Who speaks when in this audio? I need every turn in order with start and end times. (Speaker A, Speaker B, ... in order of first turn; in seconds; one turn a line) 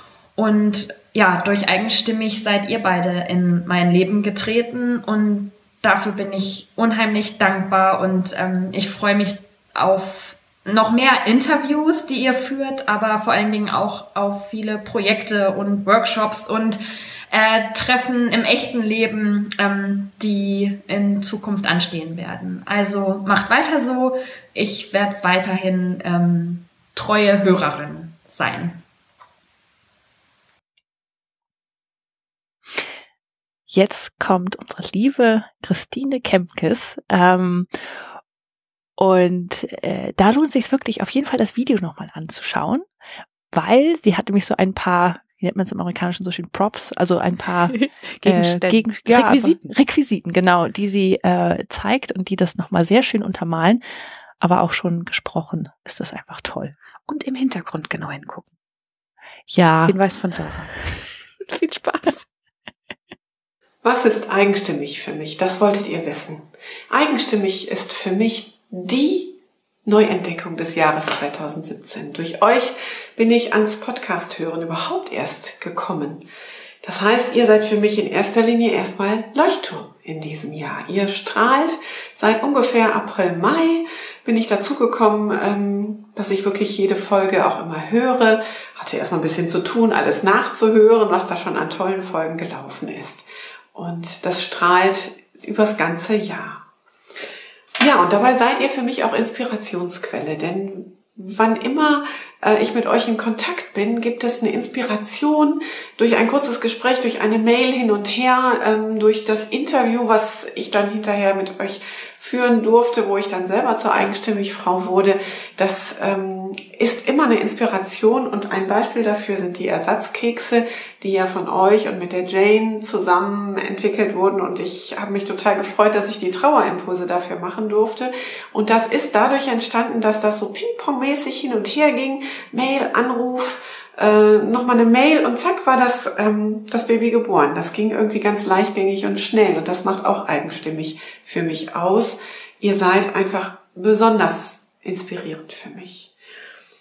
Speaker A: 0.4-28.8
Speaker B: 33.7-38.0
Speaker B: 39.0-42.9
Speaker B: 43.5-53.8
Speaker C: 47.8-49.7
Speaker B: 54.4-56.7
Speaker C: 57.1-58.5
Speaker B: 59.5-60.0
Speaker C: 59.9-60.9
Speaker C: 61.5-62.2
Speaker D: 63.8-76.2
Speaker D: 76.8-96.7
Speaker D: 97.8-146.1